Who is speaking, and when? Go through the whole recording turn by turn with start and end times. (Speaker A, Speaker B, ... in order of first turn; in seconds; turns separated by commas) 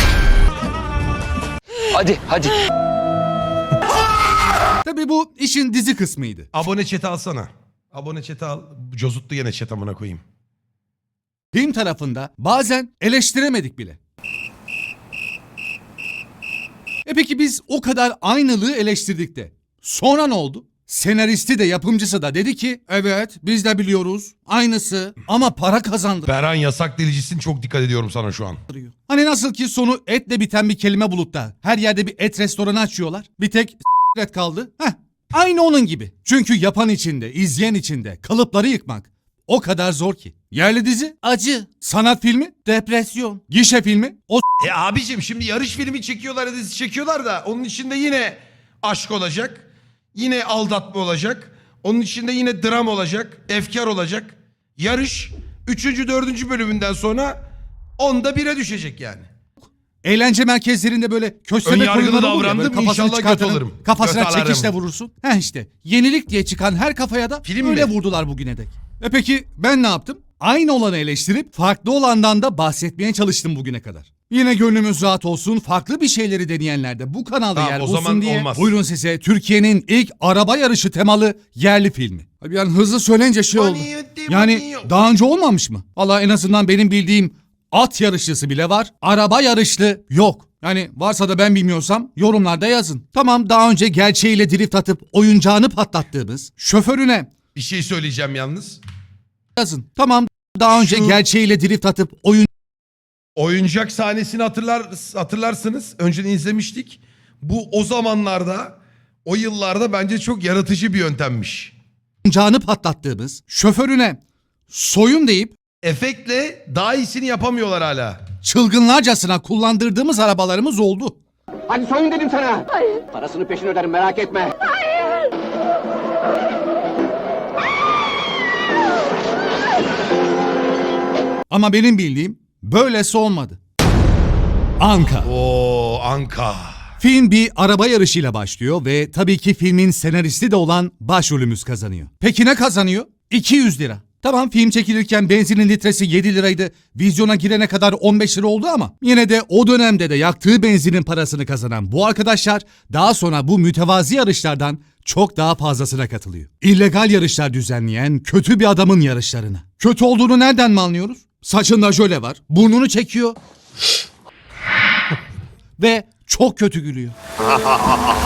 Speaker A: 2.1-2.5, Speaker B: 4.8-6.5, Speaker C: 6.5-10.2, Speaker B: 11.5-14.0, Speaker B: 17.0-26.3, Speaker C: 26.2-28.6, Speaker B: 28.7-44.4, Speaker C: 44.6-57.4, Speaker C: 58.0-59.3, Speaker B: 60.0-97.3, Speaker C: 61.6-64.7, Speaker C: 67.4-67.9, Speaker C: 77.5-78.7, Speaker C: 83.5-84.9, Speaker C: 97.5-98.8, Speaker B: 99.5-102.5, Speaker C: 100.7-101.2, Speaker C: 103.4-111.7, Speaker B: 112.2-114.2, Speaker B: 114.7-115.5, Speaker C: 115.8-118.2, Speaker B: 118.4-121.2, Speaker A: 121.7-124.5, Speaker B: 131.5-133.6, Speaker B: 134.8-135.3, Speaker C: 135.2-136.8, Speaker B: 137.0-163.3, Speaker B: 165.8-167.1